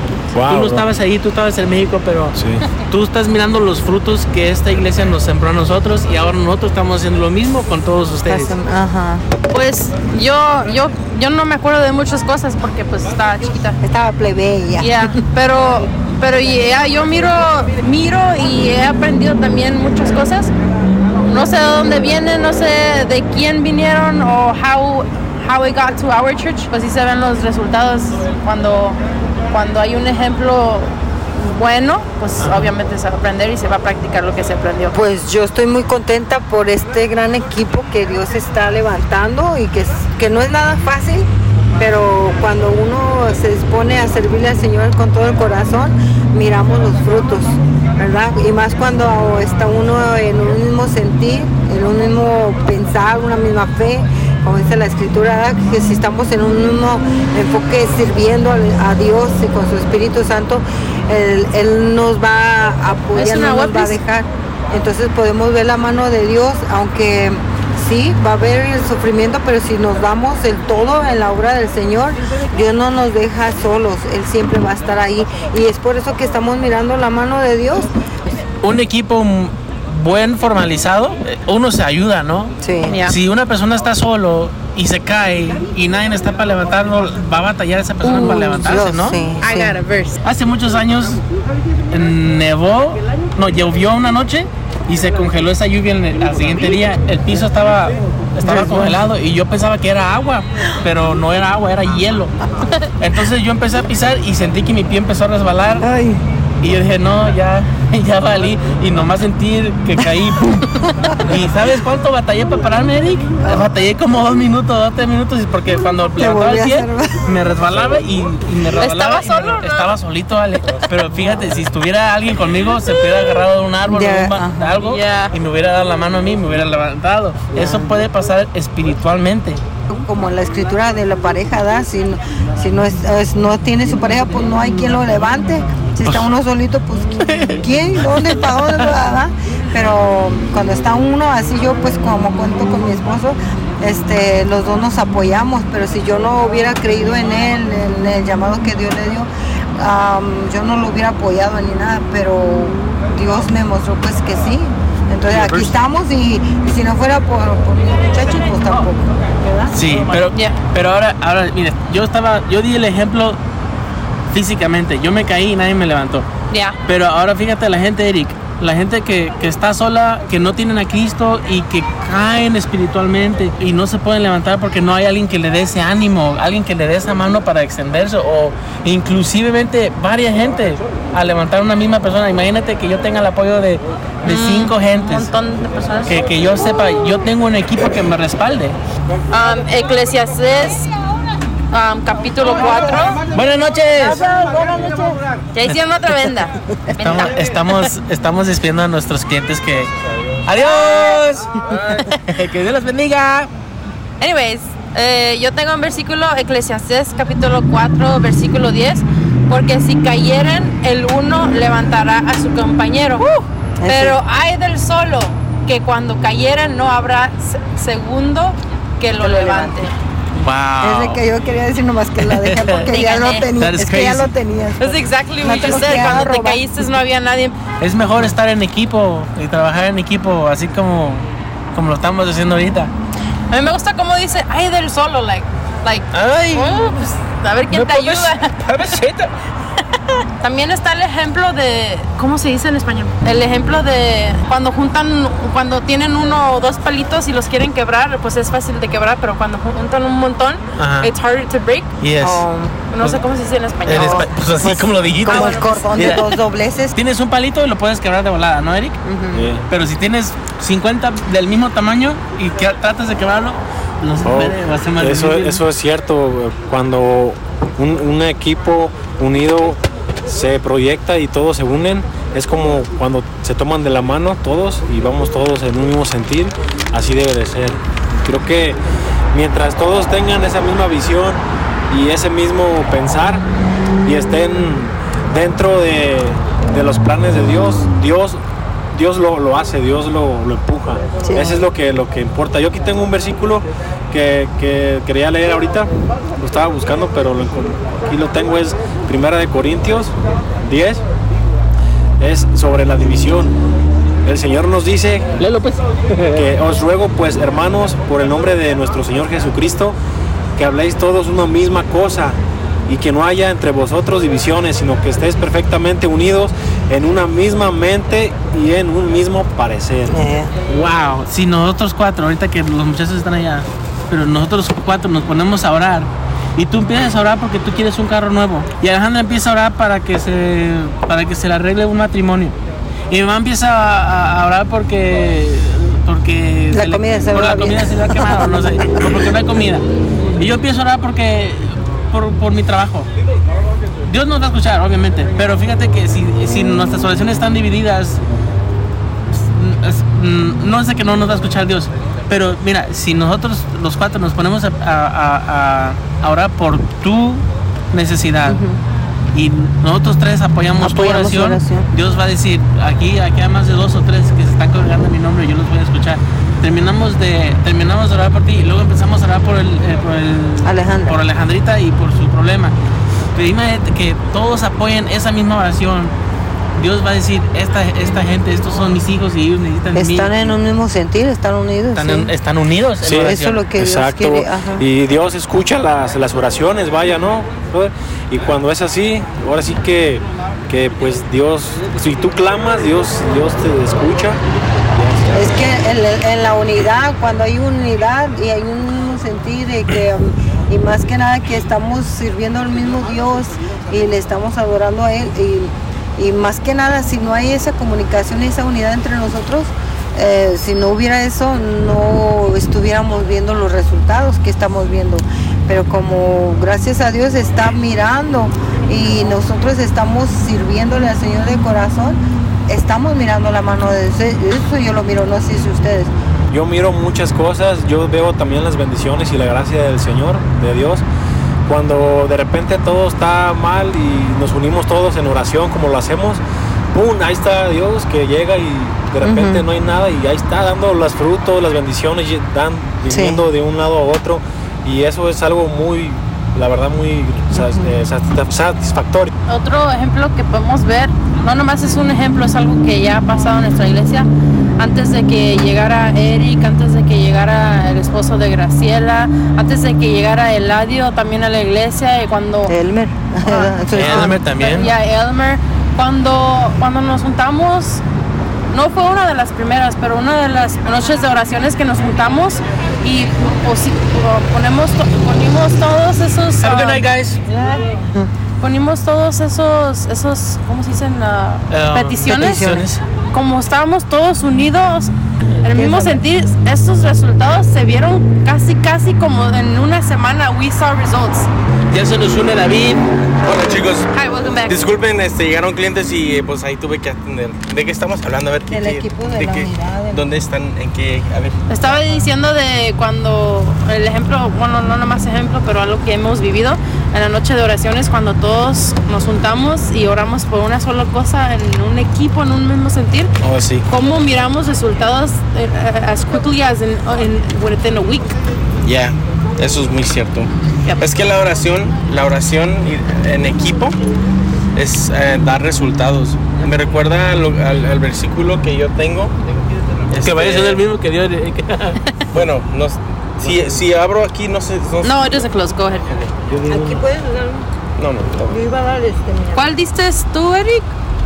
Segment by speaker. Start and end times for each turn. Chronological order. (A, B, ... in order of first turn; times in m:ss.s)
0:00.3-0:00.9 A
0:00.5-0:02.4 B
0:02.4-0:02.6 A
0:02.9-0:08.6 B
0:08.3-0:09.3 C
0:09.5-0:13.8 D
0:13.8-0:15.1 C
0:14.8-0:20.5 D
0:21.2-0:29.0 D
0:29.5-0:35.0 D
0:32.4-0:32.7 B
0:34.9-0:41.3 C
0:41.8-1:17.9 C
1:03.2-1:04.0 D
1:18.6-1:22.5 B
1:22.6-1:23.0 C
1:22.9-1:23.2 D
1:23.1-1:29.2 B
1:28.0-1:28.6 D
1:28.1-1:29.8 C
1:29.4-1:30.2 D
1:30.2-1:31.2 B
1:31.9-1:42.3 B
1:38.4-1:39.0 C
1:43.0-1:45.9 B
1:45.8-1:46.2 C
1:46.6-2:09.6 B
1:56.2-1:57.3 C
1:58.8-1:59.9 D
2:03.8-2:04.8 C
2:04.8-2:05.3 D
2:07.6-2:07.9 C
2:09.9-2:39.7 C
2:17.2-2:17.6 B
2:35.3-2:35.7 B
2:39.7-2:43.4 B
2:40.3-2:40.6 D
2:44.3-2:46.3 B
2:46.5-2:46.8 D
2:46.9-3:05.3 B
3:04.2-3:06.2 D
3:06.0-3:08.8 B
3:09.3-3:10.9 D
3:11.7-3:13.2 D
3:12.5-3:12.9 C
3:13.3-3:14.2 B
3:14.0-3:15.2 C
3:15.5-3:17.4 D
3:16.9-3:19.9 B
3:20.4-3:23.5 B
3:20.6-3:21.2 D
3:21.7-3:22.2 D
3:24.2-3:39.9 D
3:33.8-3:34.2 C
3:39.2-3:39.8 C
3:40.4-3:41.2 B
3:40.8-3:46.6 C
3:42.2-3:42.9 B
3:42.7-3:43.5 D
3:43.6-3:44.3 B
3:44.8-3:47.6 D
3:45.5-3:46.2 B
3:47.8-3:52.9 B
3:53.5-3:58.6 D
3:56.1-3:57.0 B
3:57.7-3:59.3 B
4:00.4-4:11.9 D
4:10.8-4:11.1 B
4:12.0-4:12.4 B
4:12.2-4:12.8 C
4:12.9-4:16.2 D
4:13.9-4:16.3 B
4:13.9-4:16.9 C
4:16.9-4:19.0 B
4:19.0-4:19.4 D
4:19.3-4:19.6 A
4:19.7-4:25.6 B
4:24.2-4:38.8 A
4:39.3-4:43.4 A
4:44.0-4:48.4 A
4:48.9-5:01.0 A
4:51.2-4:51.6 C
5:02.2-5:03.5 A
5:04.2-5:05.4 A
5:05.4-5:06.4 B
5:06.3-5:10.0 A
5:10.6-5:20.2 A
5:20.1-5:20.5 C
5:20.7-5:32.6 B
5:33.1-5:39.8 B
5:36.7-5:39.2 C
5:40.4-5:43.1 B
5:44.0-5:48.2 B
5:49.3-5:58.6 B
5:58.5-5:58.8 C
5:59.3-6:12.7 B
6:00.8-6:01.9 C
6:10.6-6:11.2 C
6:13.4-6:16.1 B
6:16.8-6:20.6 B
6:19.9-6:22.3 C
6:22.0-6:23.6 B
6:23.0-6:34.4 A
6:23.1-6:24.8 C
6:34.9-6:35.7 A
6:35.3-7:06.1 C
7:06.5-7:11.0 A
7:11.7-7:16.4 A
7:16.9-7:29.3 A
7:19.2-7:19.6 C
7:23.1-7:23.4 C
7:27.6-7:27.9 C
7:29.5-7:34.3 D
7:34.8-7:42.7 D
7:42.7-7:44.3 C
7:43.4-7:48.0 D
7:43.9-7:44.9 B
7:48.7-7:58.0 D
7:56.6-7:57.4 B
7:58.6-8:02.8 D
8:01.7-8:03.0 B
8:02.2-8:02.9 C
8:03.3-8:05.1 D
8:05.6-8:11.5 D
8:05.7-8:06.2 C
8:11.9-8:13.1 B
8:13.4-8:14.1 E
8:14.1-8:14.8 D
8:14.7-8:21.7 E
8:18.7-8:20.2 C
8:21.7-8:33.3 D
8:21.8-8:22.2 C
8:33.4-8:33.8 E
8:33.9-8:38.4 D
8:38.8-8:44.0 E
8:44.8-8:49.4 E
8:50.1-8:50.8 E
8:50.2-8:52.0 B
8:52.3-8:55.5 E
8:53.4-8:53.8 A
8:55.0-8:56.2 D
8:56.5-8:57.0 A
8:56.7-8:57.7 C
8:58.0-8:58.6 E
8:58.5-8:59.6 C
8:59.6-9:00.9 D